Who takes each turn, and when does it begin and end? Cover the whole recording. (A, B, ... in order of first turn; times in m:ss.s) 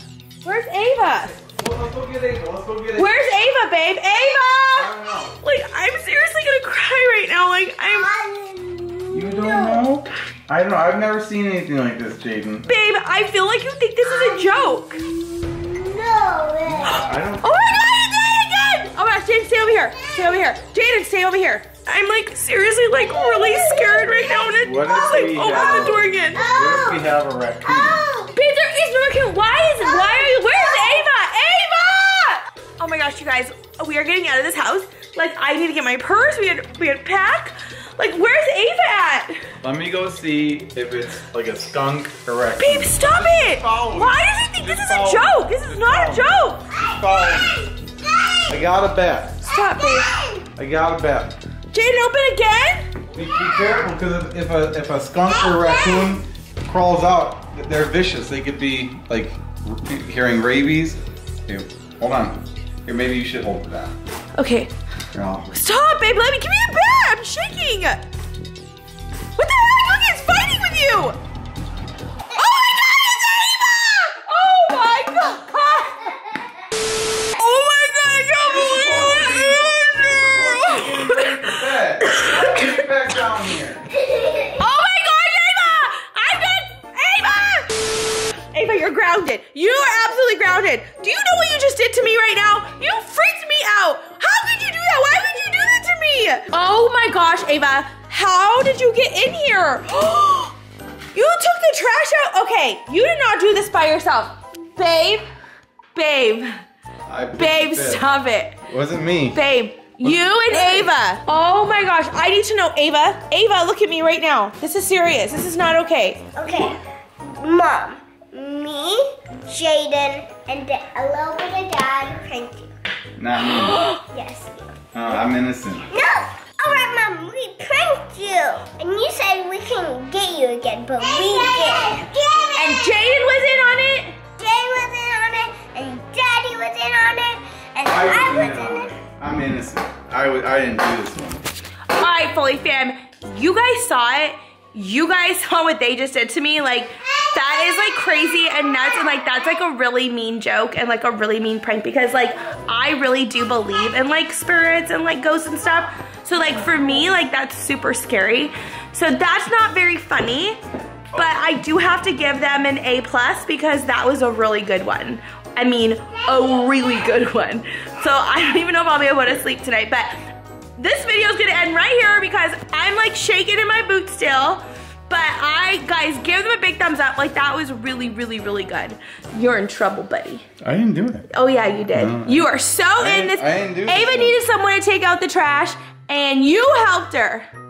0:00.4-0:01.4 A
0:01.4-0:03.1 B
0:03.0-0:08.1 A
0:04.7-0:05.4 B
0:07.9-0:09.8 C
0:09.1-0:12.7 B
0:12.6-0:15.0 A
0:14.0-0:17.1 C
0:16.6-0:17.6 B
0:17.4-0:26.5 A
0:19.8-0:20.4 C
0:23.0-0:24.4 C
0:24.6-0:28.1 B
0:25.4-0:28.3 C
0:28.3-0:39.4 A
0:29.8-0:31.1 C
0:39.6-0:47.7 B
0:42.6-0:46.7 A
0:46.7-0:48.6 C
0:48.5-0:49.4 B
0:49.4-0:50.1 A
0:49.5-0:50.5 C
0:50.6-0:51.4 B
0:51.7-0:52.9 A
0:53.1-1:04.0 B
0:55.3-0:56.1 C
1:04.4-1:04.7 A
1:05.1-1:05.6 B
1:05.5-1:08.0 A
1:09.4-1:11.2 A
1:12.3-1:16.1 A
1:17.3-1:22.7 A
1:18.4-1:23.9 B
1:24.5-1:40.6 A
1:41.1-1:45.3 A
1:46.0-1:46.5 A
1:47.1-1:48.1 B
1:47.4-1:48.6 A
1:48.6-1:49.4 B
1:49.3-1:56.2 A
1:50.0-1:50.4 B
1:56.4-1:56.8 C
1:57.3-2:02.7 C
2:03.2-2:03.8 B
2:03.4-2:04.0 A
2:04.0-2:04.7 C
2:04.9-2:05.9 B
2:05.9-2:13.1 C
2:11.0-2:11.6 A
2:12.6-2:14.2 A
2:14.4-2:19.0 C
2:17.8-2:21.5 B
2:21.9-2:40.6 A
2:27.1-2:29.2 C
2:41.1-2:50.1 A
2:50.8-3:00.4 A
3:00.6-3:01.3 B
3:01.3-3:07.5 A
3:01.9-3:04.4 B